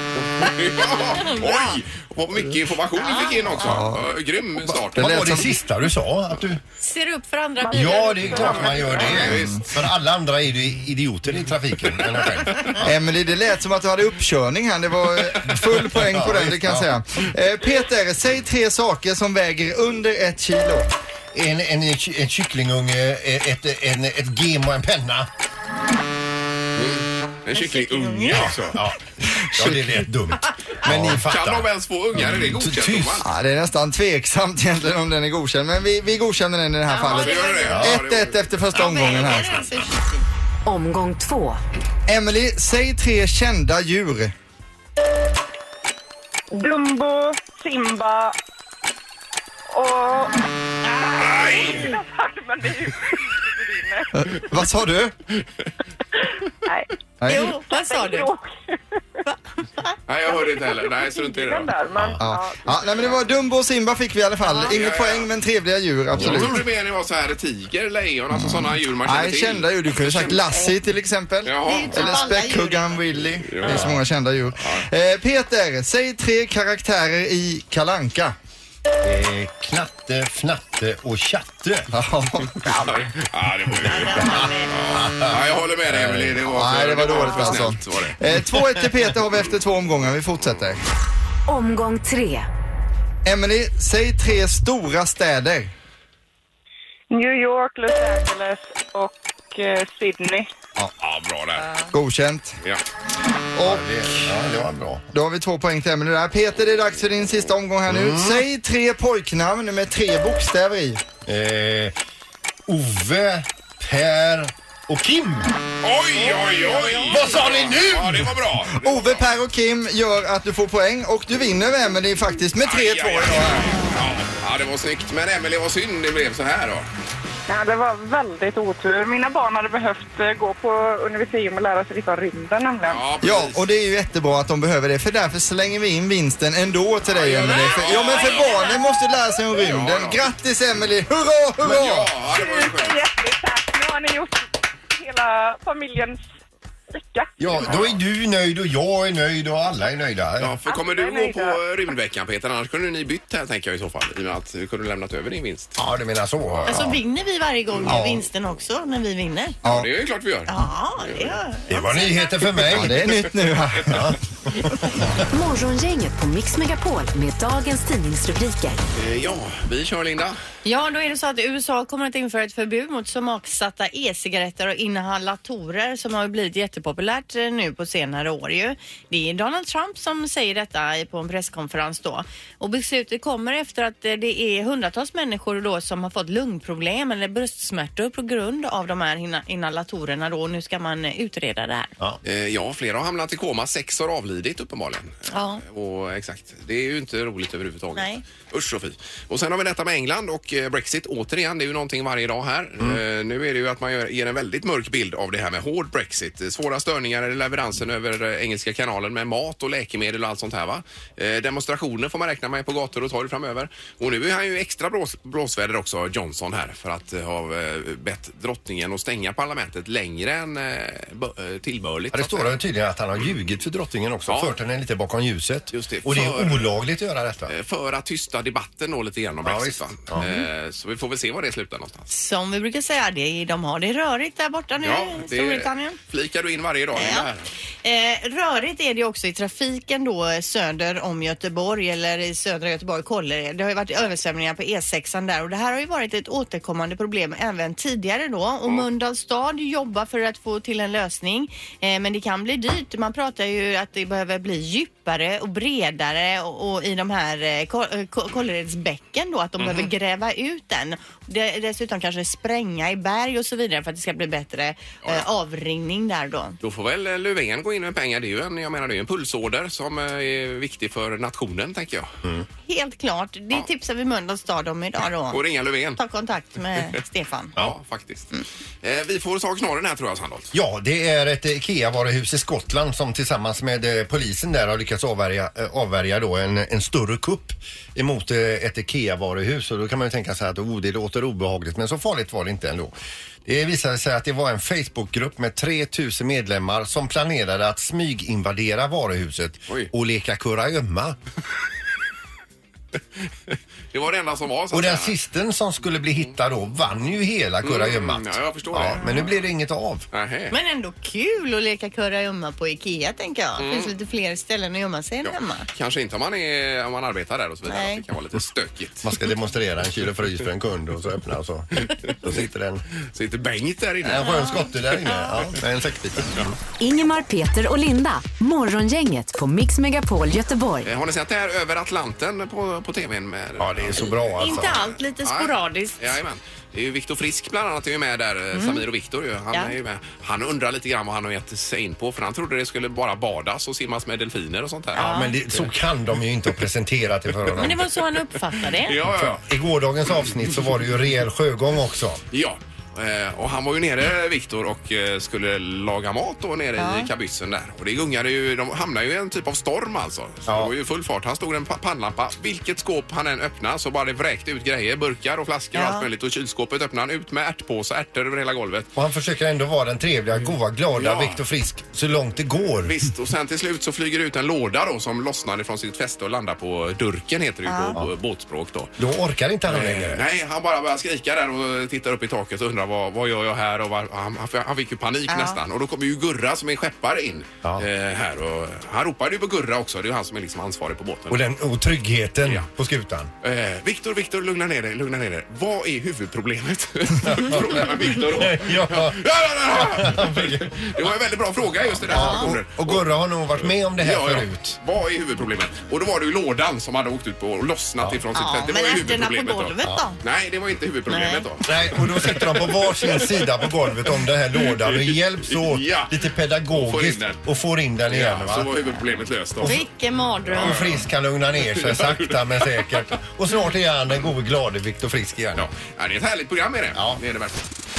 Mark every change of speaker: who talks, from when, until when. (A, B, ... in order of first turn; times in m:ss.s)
0:00.4-0:05.4 A
0:01.2-0:01.8 B
0:03.0-0:03.6 B
0:03.6-0:04.0 C
0:05.0-0:05.5 C
0:05.0-0:06.6 D
0:06.8-0:08.9 B
0:07.6-0:09.2 E
0:07.7-0:12.9 D
0:08.9-0:09.8 A
0:09.2-0:09.6 C
0:12.5-0:12.8 A
0:12.8-0:20.9 C
0:15.5-0:17.0 D
0:21.3-0:25.3 D
0:26.8-0:28.8 A
0:27.6-0:28.5 B
0:28.3-0:33.3 D
0:30.8-0:33.3 A
0:33.2-0:39.6 C
0:36.9-0:37.8 B
0:37.1-0:39.2 A
0:37.7-0:38.0 D
0:38.7-0:40.3 B
0:40.7-0:41.6 F
0:42.1-0:44.3 C
0:46.5-0:48.4 E
0:49.7-0:50.4 E
0:50.9-0:51.8 B
0:51.0-0:54.1 E
0:51.2-0:52.0 A
0:54.2-0:55.2 C
0:56.2-0:59.2 E
0:57.2-0:57.6 C
0:57.3-0:58.3 B
0:59.3-1:00.0 B
1:00.1-1:01.7 A
1:00.9-1:03.1 E
1:02.0-1:02.2 D
1:02.2-1:06.7 C
1:04.4-1:04.8 B
1:04.7-1:05.3 A
1:06.1-1:06.6 D
1:06.2-1:10.6 A
1:08.3-1:18.4 C
1:11.4-1:12.3 A
1:11.6-1:13.0 B
1:13.5-1:14.0 A
1:13.6-1:14.0 D
1:19.0-1:21.9 D
1:21.9-1:22.8 C
1:22.7-1:28.2 A
1:23.9-1:24.4 D
1:23.9-1:24.7 B
1:25.0-1:26.4 D
1:26.5-1:30.8 C
1:27.4-1:27.7 D
1:31.5-1:32.5 F
1:33.3-1:35.7 C
1:37.1-1:40.5 E
1:41.0-1:41.7 A
1:41.9-1:42.6 C
1:43.6-1:44.3 C
1:43.6-1:45.0 D
1:45.1-1:51.0 C
1:47.9-1:48.5 D
1:51.2-1:52.0 D
1:52.7-1:55.6 D
1:55.8-1:59.3 A
1:56.2-1:57.3 B
1:57.1-1:58.5 D
1:58.8-2:03.9 C
2:02.6-2:06.9 A
2:07.5-2:13.0 E
2:12.9-2:13.7 A
2:13.2-2:22.2 C
2:17.1-2:18.7 A
2:17.9-2:18.8 E
2:19.5-2:20.2 A
2:21.6-2:23.0 A
2:22.3-2:26.2 E
2:26.9-2:27.7 E
2:27.4-2:30.6 D
2:27.6-2:28.0 A
2:30.4-2:35.8 A
2:30.7-2:31.6 E
2:35.8-2:37.0 D
2:36.4-2:36.8 A
2:36.7-2:39.6 B
2:37.9-2:38.2 D
2:39.6-2:40.5 A
2:40.5-2:42.5 B
2:41.0-2:41.3 A
2:41.7-2:43.2 D
2:42.7-2:44.2 C
2:43.9-2:45.1 D
2:45.2-2:48.8 F
2:48.9-2:50.4 A
2:50.6-3:11.9 B
3:12.2-3:42.6 A
3:15.3-3:15.6 B
3:18.0-3:18.2 B
3:42.1-3:47.5 D
3:44.3-3:44.5 A
3:45.7-3:46.7 A
3:47.5-3:52.1 A
3:49.4-3:50.3 D
3:52.1-3:56.0 B
3:54.8-3:57.5 A
3:57.0-3:57.3 B
3:57.8-4:26.6 B
4:19.6-4:19.9 A
4:26.6-4:32.1 A
4:32.7-4:35.4 B
4:35.3-4:36.0 A
4:36.0-4:37.6 B
4:37.6-4:38.3 A
4:38.8-4:40.5 A
4:40.5-4:52.9 D
4:53.4-5:01.2 D
5:03.5-5:05.2 A
5:04.7-5:10.1 D
5:07.6-5:09.2 A
5:10.1-5:10.5 A
5:10.5-5:15.7 B
5:13.6-5:13.9 A
5:15.2-5:19.2 A
5:17.7-5:18.0 B
5:19.0-5:22.8 D
5:21.8-5:22.2 A
5:23.0-5:24.7 A
5:24.0-5:26.5 D
5:24.2-5:25.4 B
5:26.8-5:30.9 F
5:30.8-5:45.7 A
5:33.6-5:34.8 D
5:34.4-5:36.2 B
5:38.5-5:38.8 B
5:45.0-5:45.4 B
5:45.0-5:47.9 D
5:47.6-5:49.0 B
5:48.8-5:49.4 A
5:49.0-5:52.2 D
5:52.3-6:08.9 A
5:56.8-5:57.1 B
6:00.5-6:00.7 D
6:05.8-6:06.1 B
6:09.0-6:13.0 D
6:10.9-6:11.4 A
6:12.8-6:18.9 A
6:17.7-6:18.0 B
6:19.0-6:20.2 D
6:19.7-6:31.4 A
6:25.3-6:25.6 B
6:31.3-6:33.3 D
6:32.4-6:32.7 A
6:33.4-6:53.6 A
6:37.2-6:41.0 D
6:41.8-6:44.8 D
6:42.1-6:42.5 B
6:48.4-6:50.2 B
6:51.1-6:51.5 B
6:51.6-6:58.8 D
6:54.6-6:56.2 A
6:56.7-6:57.4 A
6:58.1-6:59.8 A
6:59.6-6:59.8 D
6:59.6-7:00.8 B
7:00.5-7:05.7 D
7:00.6-7:01.0 A
7:01.6-7:03.0 A
7:05.6-7:07.7 A
7:07.0-7:07.2 D